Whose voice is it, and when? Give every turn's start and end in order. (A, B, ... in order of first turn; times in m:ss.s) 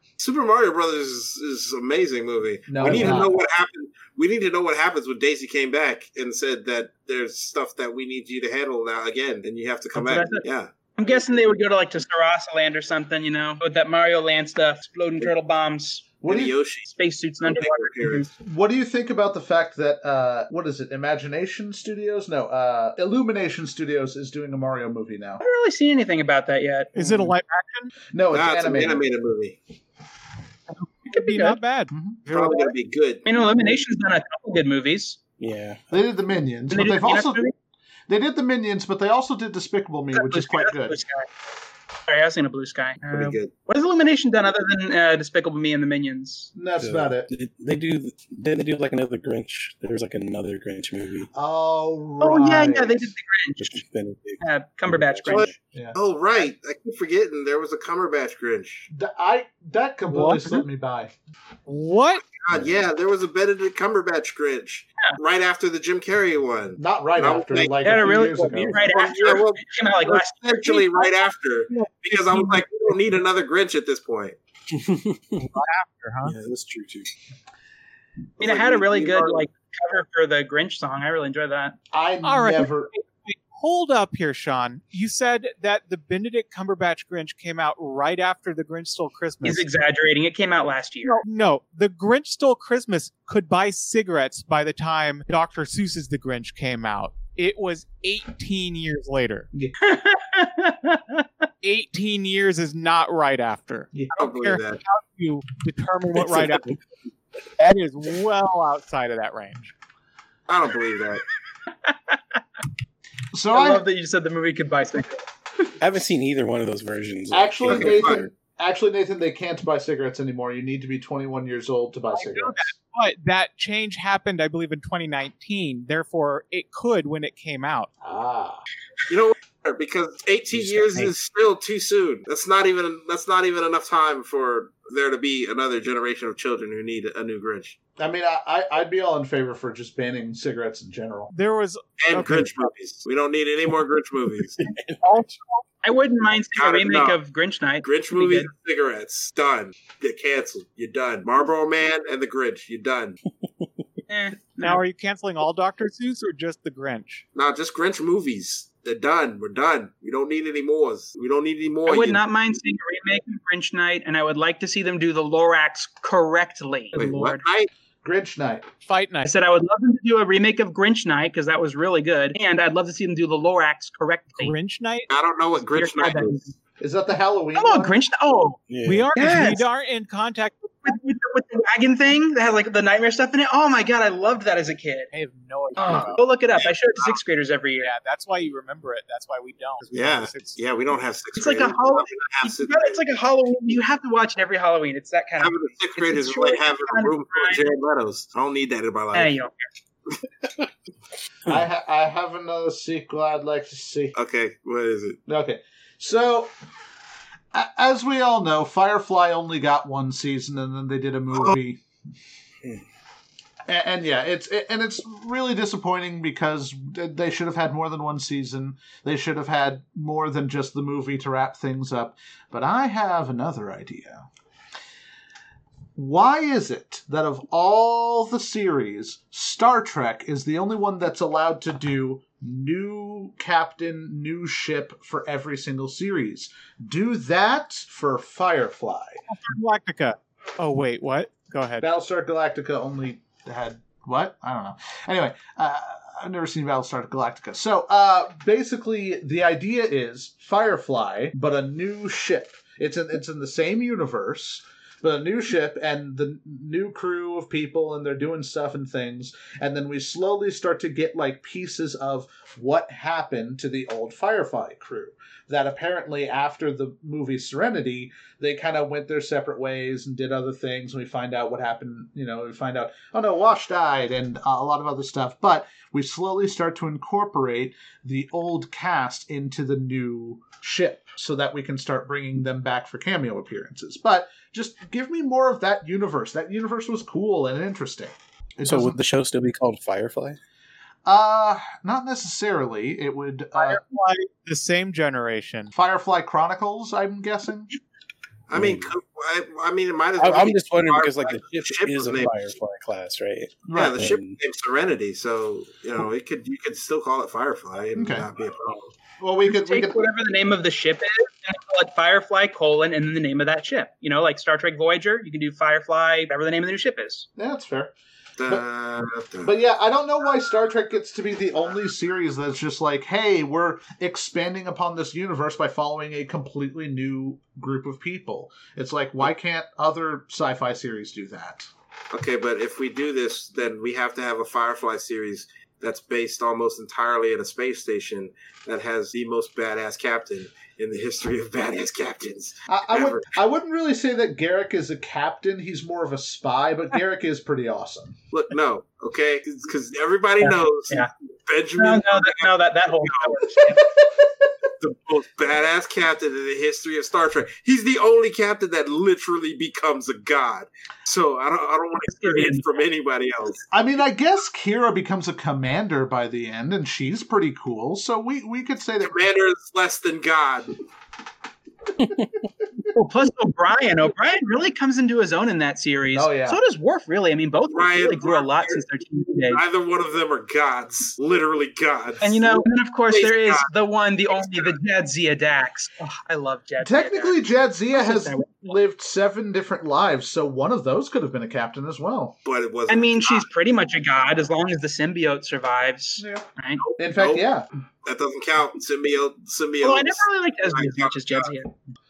0:00.2-0:10.7 A
0:02.7-0:03.4 B
0:10.0-0:10.4 C
0:11.0-0:16.1 C
0:16.2-0:16.6 B
0:16.2-0:16.9 A
0:16.9-0:18.3 C
0:17.4-0:18.3 A
0:18.4-0:25.4 B
0:25.4-0:26.9 C
0:27.0-0:27.9 D
0:27.0-0:27.3 B
0:28.1-0:29.1 B
0:28.3-0:29.6 A
0:30.8-0:32.7 D
0:31.1-0:31.6 C
0:31.9-0:32.2 B
0:32.3-0:33.2 A
0:33.2-0:35.2 C
0:35.4-0:35.9 E
0:35.9-0:37.5 B
0:36.7-0:37.5 C
0:38.1-0:41.0 B
0:40.1-0:41.3 C
0:42.1-0:46.5 C
0:43.1-0:43.5 A
0:46.6-0:47.3 B
0:46.8-0:51.3 E
0:51.3-0:53.1 B
0:52.2-0:53.8 C
0:53.6-0:55.6 E
0:54.4-0:55.5 C
0:55.3-0:58.9 A
0:58.9-1:01.1 B
1:00.1-1:00.6 D
1:01.7-1:02.2 D
1:02.4-1:07.8 A
1:06.8-1:08.8 B
1:07.8-1:11.1 C
1:08.8-1:14.4 A
1:11.7-1:12.6 D
1:14.7-1:15.4 E
1:15.4-1:16.3 D
1:16.2-1:17.1 E
1:18.4-1:19.4 A
1:18.4-1:21.8 C
1:21.9-1:22.9 B
1:22.2-1:29.7 D
1:29.4-1:31.2 C
1:31.0-1:39.5 D
1:39.8-1:41.2 C
1:41.6-1:46.8 D
1:44.2-1:44.8 A
1:46.3-1:46.8 E
1:47.6-1:49.7 D
1:50.5-1:51.2 A
1:51.8-1:52.4 C
1:53.3-1:53.8 B
1:53.5-1:55.2 C
1:55.8-1:58.3 E
1:57.3-2:02.6 B
1:57.7-1:58.2 A
2:02.1-2:07.9 D
2:08.0-2:08.6 B
2:09.1-2:17.8 A
2:18.0-2:21.3 B
2:21.3-2:22.7 D
2:22.0-2:24.6 A
2:24.6-2:25.0 E
2:24.6-2:25.6 D
2:25.8-2:28.5 C
2:26.6-2:27.2 A
2:27.8-2:33.2 A
2:33.4-2:33.7 E
2:34.1-2:34.8 C
2:34.6-2:37.2 D
2:37.4-2:42.2 A
2:41.9-2:47.4 C
2:47.0-2:47.7 A
2:48.0-2:48.6 B
2:48.9-2:49.3 D
2:49.2-2:54.6 C
2:54.4-2:55.1 D
2:55.1-2:56.5 A
2:55.6-2:56.5 C
2:56.8-2:58.0 B
2:57.6-2:58.6 C
2:58.7-2:59.1 E
2:58.8-3:00.8 D
2:59.2-2:59.6 C
3:00.8-3:05.1 C
3:05.1-3:06.2 D
3:05.8-3:07.9 C
3:06.6-3:07.2 A
3:07.8-3:10.6 D
3:09.9-3:13.0 A
3:11.4-3:17.6 C
3:15.4-3:19.3 A
3:19.1-3:19.5 C
3:21.5-3:24.2 B
3:24.2-3:25.2 A
3:25.3-3:26.5 B
3:27.5-3:31.8 B
3:33.7-3:44.3 B
3:46.0-3:59.2 B
3:59.3-4:01.8 D
4:01.8-4:49.0 B
4:48.6-4:50.4 E
4:51.0-4:53.8 B
4:53.6-4:55.7 D
4:55.7-4:57.7 B
4:58.5-5:02.5 A
4:58.6-4:58.9 E
5:00.2-5:04.4 E
5:03.7-5:04.1 B
5:03.7-5:08.9 A
5:08.0-5:08.3 B
5:09.2-5:10.1 B
5:09.5-5:17.3 C
5:17.4-5:17.9 B
5:18.4-5:19.5 A
5:19.4-5:31.7 B
5:32.1-5:43.3 A
5:42.7-5:48.2 B
5:48.3-5:53.4 A
5:50.4-5:51.1 C
5:51.8-5:53.8 C
5:54.8-6:03.6 A
6:02.2-6:02.6 C
6:03.7-6:09.2 B
6:09.0-6:10.8 A
6:12.0-6:12.5 E
6:12.9-6:19.6 C
6:16.1-6:16.6 B
6:17.7-6:18.8 A
6:19.5-6:23.7 A
6:22.2-6:27.4 C
6:24.3-6:24.8 A
6:26.8-6:32.4 B
6:27.9-6:28.8 C
6:32.4-6:33.4 A
6:32.9-6:36.8 C
6:36.2-6:36.4 B
6:36.9-6:37.4 A
6:37.0-6:37.7 B
6:38.0-6:41.5 A
6:39.8-6:41.7 C